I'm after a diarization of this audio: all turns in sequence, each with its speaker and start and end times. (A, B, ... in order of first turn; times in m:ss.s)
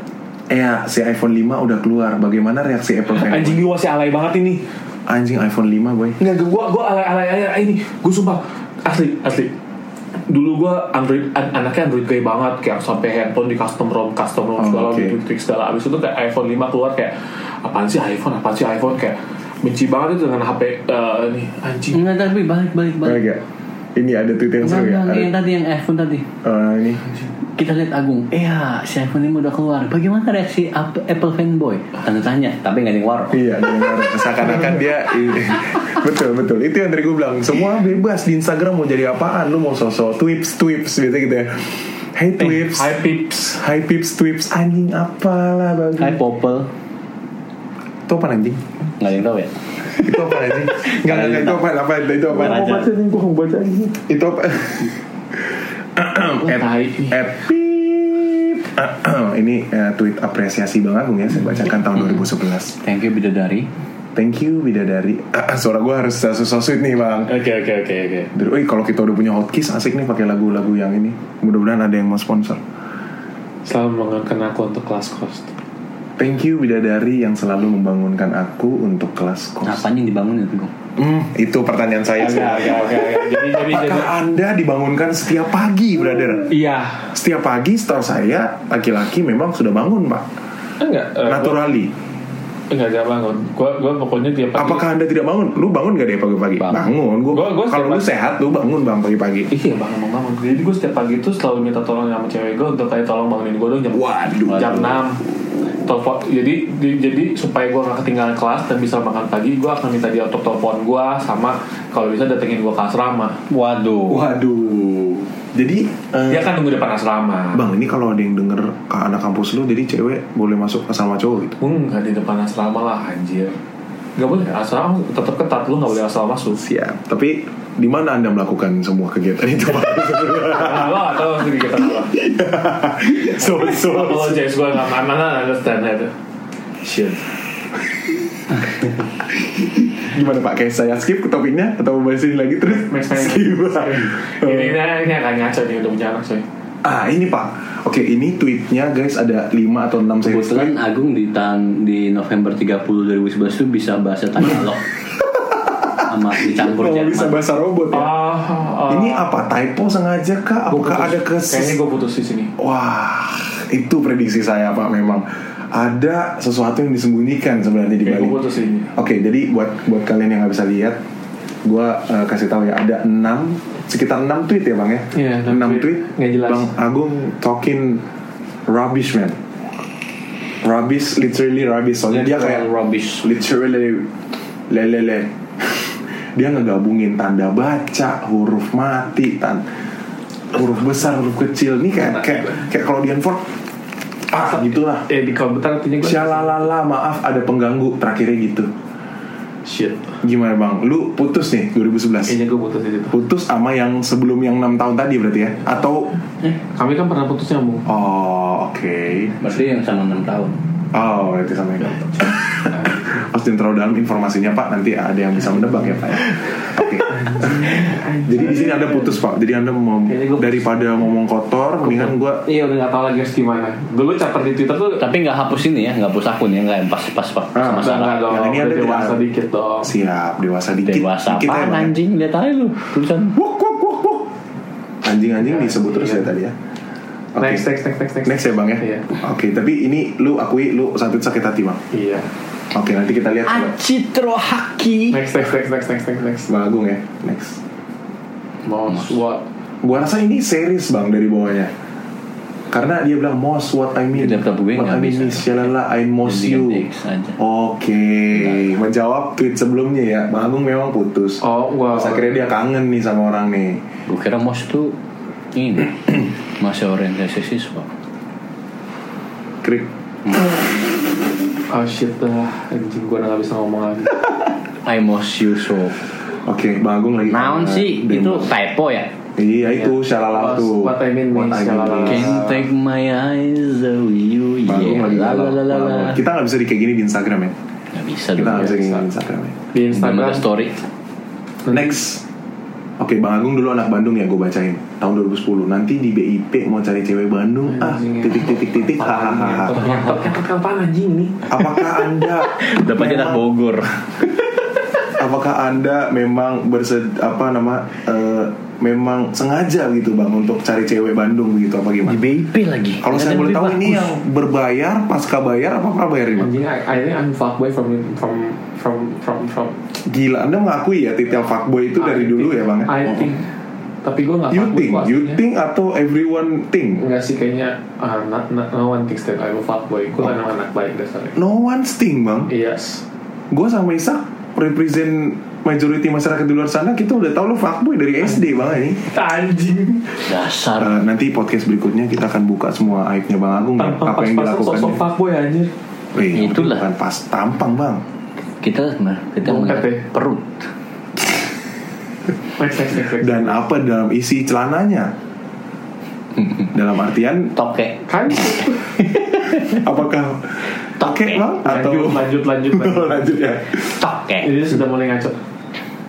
0:00.5-0:03.6 A
0:03.1-0:04.6 B
0:05.1-0:06.2 A
0:06.2-0:09.5 B
0:10.3-0:22.0 B
0:14.6-0:15.2 A
0:21.9-0:23.2 C
0:23.0-0:23.4 A
0:23.9-0:25.3 A
0:24.6-0:26.3 C
0:26.4-0:27.0 A
0:27.6-0:33.4 C
0:33.3-0:43.0 A
0:42.4-0:43.6 B
0:43.5-0:46.2 A
0:46.0-0:46.7 C
0:48.1-0:48.6 A
0:49.0-0:50.0 C
0:50.0-0:52.9 A
0:50.7-0:51.6 C
0:52.3-0:54.0 B
0:52.3-0:52.9 C
0:54.0-0:55.0 A
0:55.9-1:02.8 A
0:56.4-0:57.2 B
1:02.8-1:03.7 C
1:04.1-1:07.3 A
1:07.3-1:08.3 B
1:08.3-1:12.6 A
1:13.6-1:15.5 B
1:16.2-1:19.8 A
1:19.6-1:20.7 C
1:21.0-1:26.5 A
1:22.2-1:24.1 B
1:26.5-1:27.1 B
1:27.1-1:30.3 A
1:30.8-1:31.6 B
1:31.2-1:31.9 A
1:32.7-1:34.9 B
1:34.6-1:39.5 A
1:37.3-1:38.1 B
1:39.5-1:45.2 B
1:43.9-1:44.9 A
1:44.5-1:44.9 C
1:45.8-1:53.4 B
1:53.5-1:54.2 C
1:54.1-1:56.5 A
1:56.3-1:57.7 B
1:57.5-2:01.6 A
2:01.6-2:03.6 B
2:04.2-2:06.6 B
2:06.5-2:11.0 A
2:10.4-2:12.2 B
2:11.8-2:14.4 A
2:13.4-2:16.1 B
2:16.8-2:17.2 B
2:19.5-2:24.8 A
2:22.6-2:26.4 B
2:26.8-2:30.7 A
2:30.2-2:34.9 C
2:36.0-2:38.1 A
2:36.0-2:37.4 C
2:37.9-2:39.3 B
2:38.9-2:41.8 A
2:40.7-2:42.5 B
2:42.6-2:48.4 A
2:48.0-2:48.9 B
2:48.9-2:51.0 A
2:51.6-2:58.0 A
2:55.1-2:56.7 B
2:58.7-2:59.4 A
3:00.6-3:02.7 A
3:02.1-3:03.3 C
3:03.2-3:04.1 A
3:04.7-3:09.6 A
3:10.5-3:13.5 A
3:12.0-3:12.7 B
3:14.3-3:15.0 A
3:14.4-3:16.6 B
3:16.0-3:18.7 A
3:19.6-3:20.2 B
3:20.2-3:22.4 A
3:22.2-3:23.2 B
3:23.1-3:26.2 A
3:26.7-3:27.8 B
3:27.9-3:29.4 A
3:29.4-3:30.6 C
3:30.9-3:42.4 A
3:32.7-3:33.0 B
3:37.1-3:39.2 B
3:40.1-3:41.0 B
3:41.8-3:45.0 B
3:45.0-3:48.2 C
3:47.5-3:49.2 A
3:47.8-3:49.9 B
3:49.8-3:51.9 A
3:50.8-3:53.4 C
3:53.3-3:54.3 A
3:55.0-3:56.5 A
3:55.4-3:56.3 B
3:57.4-3:57.7 A
3:57.4-3:59.1 B
3:58.2-4:01.8 A
4:01.9-4:02.3 B
4:02.7-4:03.7 A
4:03.4-4:05.2 C
4:05.1-4:06.5 B
4:06.5-4:07.6 A
4:08.6-4:09.4 B
4:09.8-4:11.7 A
4:12.7-4:16.9 A
4:14.1-4:17.4 C
4:17.4-4:23.8 A
4:18.3-4:18.7 C
4:21.4-4:22.3 B
4:24.1-4:24.9 C
4:25.5-4:27.9 C
4:29.6-4:29.9 A
4:31.7-4:34.2 B
4:34.8-4:36.0 C
4:36.4-4:38.5 A
4:37.3-4:39.1 C
4:39.4-4:42.5 A
4:39.6-4:42.5 B
4:42.0-4:46.2 C
4:44.6-4:47.5 A
4:47.9-4:48.8 C
4:48.4-4:49.6 A
4:48.5-4:49.0 B
4:49.7-4:50.4 B
4:49.9-4:50.7 C
4:51.7-4:52.0 B
4:51.7-4:52.2 A
4:53.0-4:59.8 A
4:57.7-5:01.5 B
5:01.5-5:03.4 A
5:02.4-5:03.9 C
5:05.2-5:12.2 A
5:12.0-5:14.1 C
5:13.0-5:16.5 A
5:16.4-5:19.8 B
5:19.9-5:23.0 A
5:22.0-5:23.5 B
5:24.0-5:25.4 B
5:24.5-5:27.0 A
5:27.0-5:31.4 B
5:31.4-5:32.5 A
5:32.5-5:33.0 B
5:33.5-5:39.0 A
5:39.0-5:40.3 B
5:40.2-5:41.0 C
5:40.8-5:45.0 A
5:43.8-5:45.7 B
5:46.1-5:48.0 A
5:46.3-5:46.9 C
5:48.6-5:50.7 C
5:49.4-5:50.0 B
5:52.6-5:53.6 B
5:53.2-5:55.1 A
5:56.7-5:57.5 A
5:57.6-5:58.0 C
5:58.1-5:58.8 B
5:59.0-5:59.8 C
5:59.6-6:04.0 A
6:01.0-6:01.4 C
6:01.6-6:03.6 B
6:03.9-6:04.5 C
6:04.4-6:05.4 B